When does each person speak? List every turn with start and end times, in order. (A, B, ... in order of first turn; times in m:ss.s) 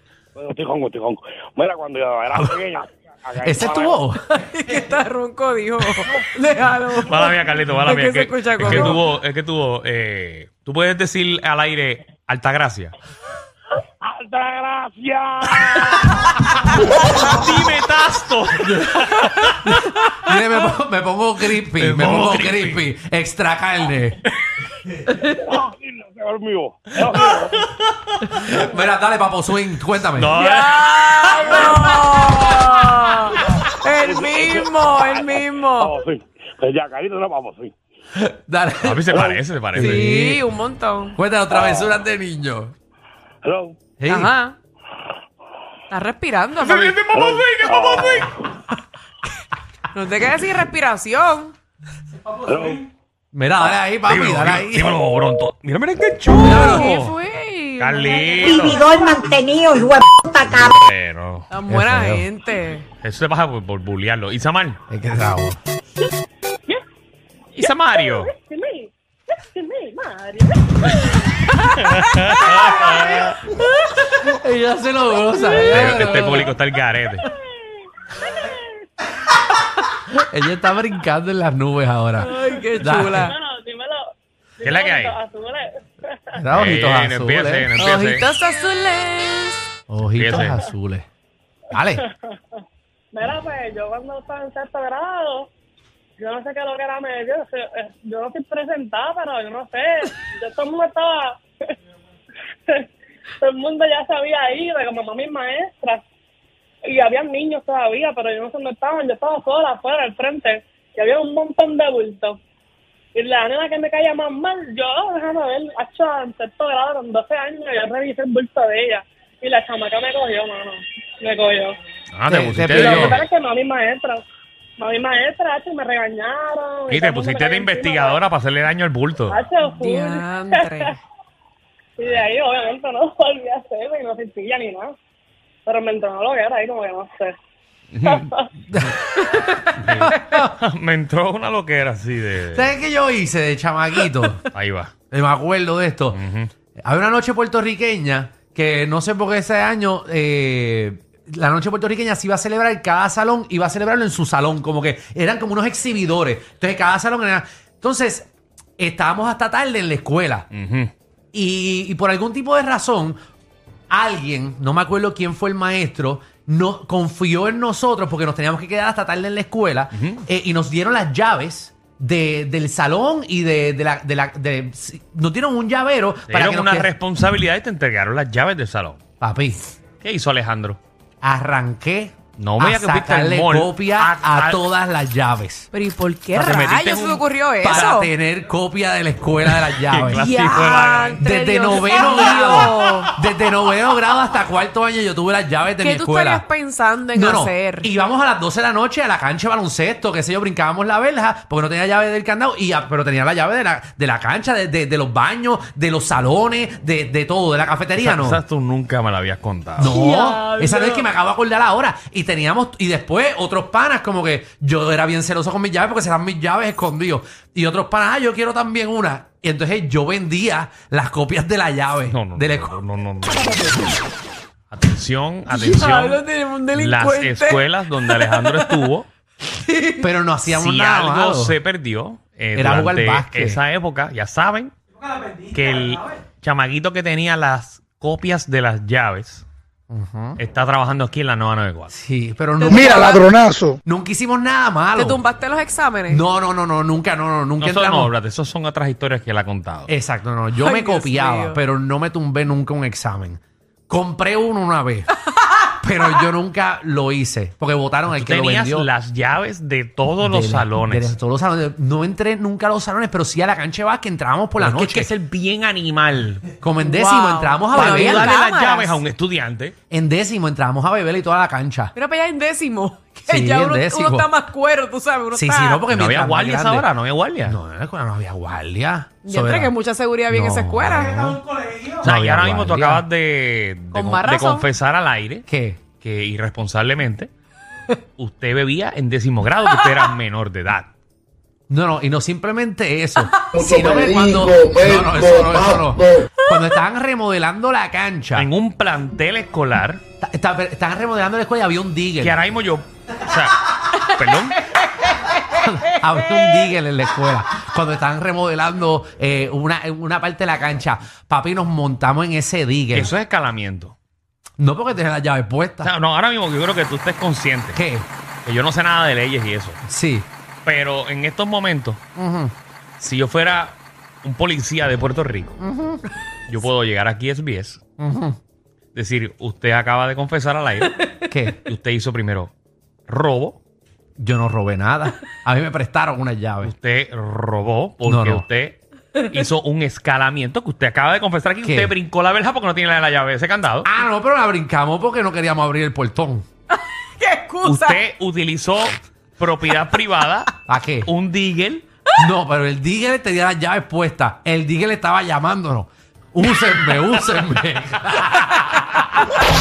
0:00.3-0:04.1 A
0:03.4-0:04.2 B
0:04.3-0:09.0 C
0:07.0-0:12.9 D
0:08.6-0:09.0 B
0:14.0-0:16.3 A
0:16.8-0:19.8 D
0:18.6-0:24.2 B
0:21.7-0:22.9 D
0:25.2-0:27.6 A
0:27.1-0:28.4 D
0:28.4-0:30.4 B
0:30.2-0:32.0 D
0:30.3-0:36.0 C
0:33.6-0:37.7 A
0:38.2-0:40.4 B
0:38.8-0:40.2 D
0:39.7-0:41.2 C
0:41.2-0:42.7 B
0:41.5-0:41.9 A
0:43.4-0:43.8 A
0:44.0-0:44.3 B
0:44.1-0:44.6 C
0:45.9-0:47.1 C
0:46.6-0:48.3 D
0:47.1-0:48.3 A
0:49.9-0:51.5 C
0:52.4-0:52.9 A
0:53.3-0:55.0 B
0:54.0-0:57.1 D
0:56.4-0:57.1 B
0:56.4-0:58.8 C
0:57.8-0:58.8 D
0:58.4-1:00.7 E
1:00.5-1:01.5 D
1:01.5-1:02.8 C
1:01.7-1:02.3 B
1:03.0-1:04.8 D
1:04.9-1:05.6 B
1:07.5-1:08.3 D
1:07.6-1:11.3 F
1:10.9-1:11.2 D
1:11.8-1:13.4 D
1:12.4-1:13.4 F
1:14.1-1:16.5 B
1:15.7-1:17.3 D
1:18.2-1:18.8 F
1:20.1-1:23.3 B
1:22.2-1:23.3 C
1:22.4-1:24.1 F
1:24.6-1:26.4 F
1:24.6-1:25.2 D
1:26.4-1:27.7 B
1:26.5-1:28.3 D
1:27.7-1:29.7 C
1:29.9-1:31.0 B
1:30.2-1:30.6 D
1:31.7-1:32.0 B
1:33.1-1:35.5 F
1:36.2-1:41.4 F
1:43.4-1:46.0 F
1:46.8-1:52.4 F
1:53.1-2:01.8 F
2:02.1-2:03.2 D
2:02.3-2:03.2 B
2:02.7-2:04.2 F
2:04.8-2:08.2 F
2:06.9-2:09.5 D
2:09.3-2:11.0 F
2:09.6-2:10.9 C
2:12.0-2:14.9 F
2:15.6-2:17.3 F
2:17.9-2:18.3 D
2:18.0-2:18.5 F
2:18.7-2:20.5 B
2:19.8-2:22.7 D
2:22.5-2:24.4 B
2:24.5-2:24.9 D
2:25.1-2:26.2 B
2:26.1-2:26.5 D
2:26.8-2:40.5 B
2:40.5-2:40.9 D
2:41.3-2:43.2 B
2:43.9-2:56.9 B
2:49.9-2:50.2 D
2:56.3-2:59.0 D
2:59.2-2:59.6 B
3:00.0-3:00.8 D
3:01.2-3:05.7 B
3:02.4-3:04.6 D
3:05.7-3:08.1 C
3:06.3-3:07.2 D
3:07.6-3:10.3 B
3:09.4-3:11.2 D
3:10.1-3:13.1 C
3:11.2-3:16.4 B
3:15.8-3:17.9 C
3:17.1-3:28.4 B
3:28.0-3:30.0 D
3:29.8-3:42.8 B
3:29.9-3:31.0 C
3:42.1-3:44.0 D
3:44.7-3:46.2 D
3:45.5-3:48.9 C
3:46.7-3:49.1 D
3:49.4-3:50.1 C
3:50.0-3:51.6 B
3:50.4-3:54.7 D
3:52.5-3:53.6 B
3:55.5-3:59.4 D
3:59.9-4:00.4 B
4:00.4-4:01.9 D
4:01.9-4:03.3 B
4:02.6-4:03.4 C
4:03.8-4:05.2 B
4:04.9-4:06.2 C
4:06.1-4:08.1 B
4:07.6-4:09.9 D
4:09.9-4:15.1 B
4:10.6-4:11.6 C
4:15.7-4:18.9 B
4:18.1-4:21.1 D
4:20.2-4:25.1 B
4:24.6-4:26.5 D
4:26.6-4:28.3 B
4:26.8-4:29.0 C
4:27.7-4:29.7 D
4:29.9-4:31.9 B
4:32.0-4:35.9 C
4:33.3-4:34.3 B
4:35.3-4:36.9 B
4:35.9-4:37.6 D
4:37.4-4:39.7 B
4:39.2-4:41.4 C
4:40.3-4:41.4 B
4:42.0-4:43.0 B
4:42.0-4:45.4 D
4:43.9-4:44.7 C
4:45.5-4:45.8 B
4:46.0-4:47.3 D
4:48.2-4:50.9 D
4:51.7-4:58.5 B
4:58.4-5:00.0 D
5:00.2-5:02.4 B
5:02.2-5:04.6 D
5:05.6-5:13.1 B
5:12.9-5:13.9 D
5:14.6-5:15.9 B
5:15.8-5:17.8 D
5:17.7-5:18.1 B
5:18.4-5:19.8 D
5:19.8-5:20.3 B
5:20.6-5:22.0 D
5:22.2-5:22.5 B
5:23.0-5:25.5 D
5:25.6-5:26.0 B
5:26.5-5:27.8 D
5:28.0-5:28.4 B
5:28.9-5:31.1 D
5:31.3-5:31.6 B
5:31.6-5:32.5 D
5:33.1-5:33.6 D
5:34.2-5:36.7 B
5:36.6-5:43.9 D
5:38.0-5:38.4 B
5:41.6-5:41.9 B
5:43.8-5:46.4 B
5:47.2-5:48.0 C
5:47.6-5:51.8 D
5:50.7-5:51.1 B
5:52.2-5:59.2 B